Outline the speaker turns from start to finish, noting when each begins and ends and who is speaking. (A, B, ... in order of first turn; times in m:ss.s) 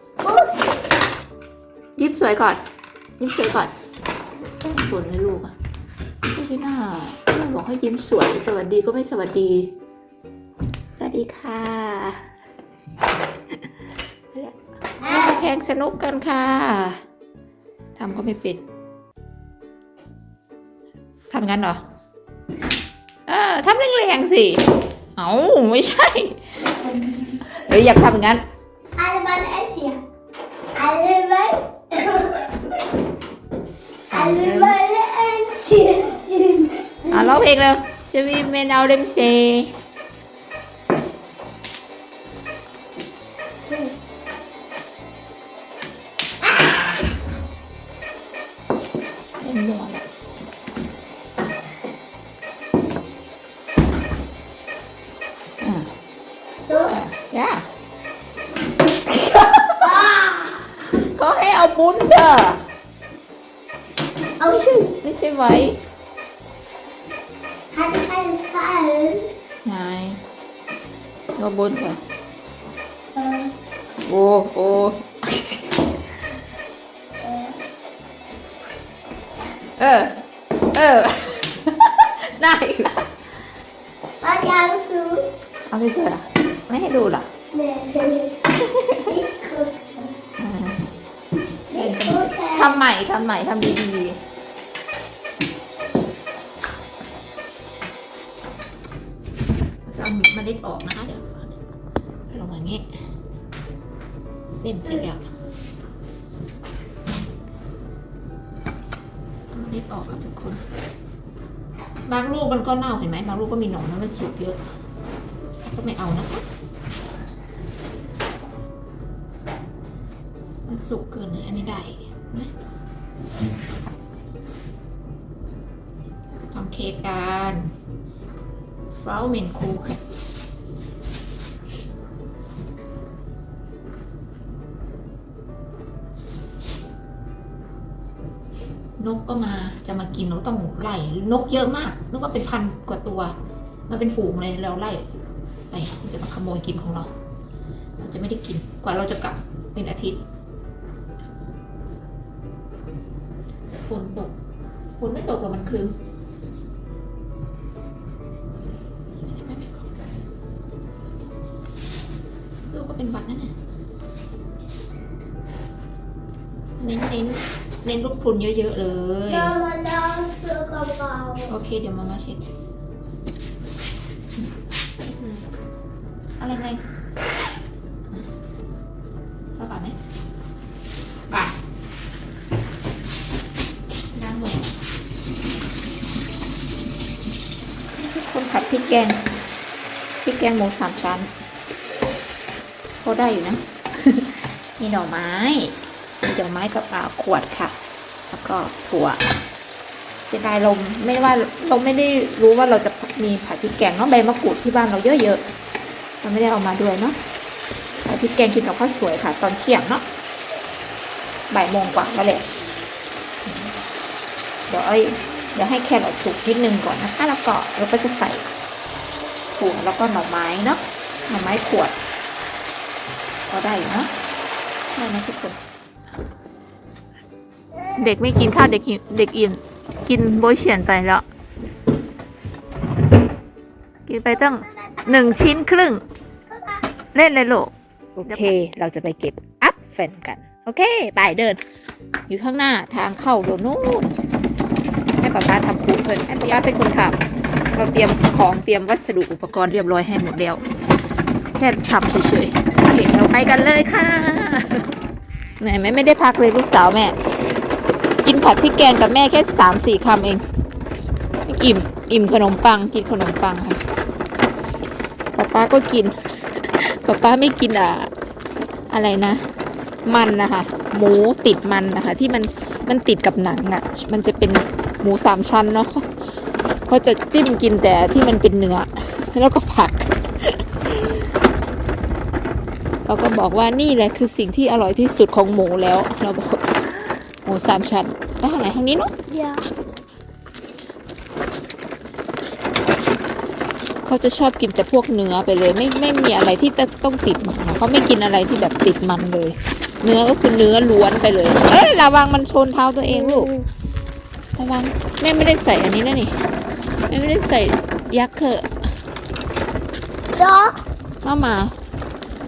0:00.2-0:00.8 A
0:02.0-0:02.6 B
0:03.2-0:03.7 B
0:04.6-0:05.5 B
0:06.3-0:09.7 B
0:10.9-0:12.3 B
0:14.3-0:17.0 B
0:15.0-0:15.4 A
0:18.0-0:18.6 B
0:21.3-0:21.8 B
0:23.3-0:26.4 B
0:27.5-0:28.4 B
0:29.0-0:30.0 A
0:30.7-0:32.8 A
0:34.1-0:34.8 B
0:34.1-0:37.4 A
0:37.1-0:39.8 B
0:43.7-0:44.0 A
0:46.4-0:46.7 A
0:49.4-0:50.0 B
0:55.6-0:55.9 B
0:56.6-0:57.0 A
0:56.7-0:57.6 B
0:59.0-0:59.9 B
0:59.8-1:00.8 A
1:01.0-1:02.6 B
1:04.4-1:04.9 A
1:04.5-1:05.9 B
1:07.7-1:09.3 A
1:09.6-1:10.2 B
1:11.4-1:12.0 B
1:13.1-1:13.5 A
1:14.0-1:15.7 B
1:17.2-1:17.6 A
1:19.8-1:23.1 B
1:24.2-1:25.3 A
1:25.7-1:27.3 B
1:27.5-1:30.2 A
1:28.5-1:29.1 B
1:30.4-1:30.9 B
1:31.7-1:32.8 A
1:31.7-1:34.2 B
1:39.8-1:41.5 B
1:42.3-1:42.9 B
1:44.6-1:45.2 B
1:44.8-1:45.4 A
1:49.5-1:50.6 B
1:52.1-1:54.6 B
1:55.6-1:56.4 B
2:00.7-2:02.5 B
2:06.3-2:07.7 B
2:09.0-2:10.0 B
2:19.0-2:23.3 B
2:23.9-2:25.0 B
2:25.7-2:27.1 B
2:28.0-2:30.2 B
2:33.8-2:34.3 B
2:35.0-2:36.0 B
2:39.2-2:39.9 B
2:42.7-2:43.5 B
2:46.8-2:49.6 B
2:49.3-2:51.5 A
2:51.5-2:52.5 B
2:55.0-2:55.4 B
2:56.4-2:56.8 B
2:59.5-3:00.0 B
3:04.1-3:04.7 B
3:08.0-3:09.2 B
3:10.2-3:11.3 B
3:13.0-3:17.8 B
3:18.3-3:19.2 B
3:20.2-3:25.4 B
3:26.2-3:27.2 B
3:28.0-3:30.0 B
3:31.5-3:32.4 B
3:34.7-3:38.4 B
3:39.6-3:41.9 B
3:43.5-3:44.1 B
3:44.9-3:45.6 B
3:47.8-3:48.1 A
3:48.0-3:51.2 B
3:54.1-3:56.0 B
3:54.3-3:55.5 A
3:56.5-3:56.9 A
3:57.1-4:01.6 B
4:02.3-4:04.1 B
4:05.2-4:07.2 B
4:07.7-4:10.6 B
4:11.5-4:14.9 B
4:15.6-4:17.1 B
4:18.2-4:20.4 B
4:21.4-4:23.8 B
4:25.3-4:28.1 B
4:28.9-4:29.4 B
4:30.0-4:36.1 B
4:36.9-4:41.3 B
4:43.0-4:46.8 B
4:47.4-4:49.1 B
4:49.3-4:49.6 A
4:54.0-5:03.5 B
5:03.1-5:03.6 A
5:04.6-5:06.4 B
5:07.1-5:08.7 B
5:10.3-5:10.8 A
5:11.2-5:11.7 B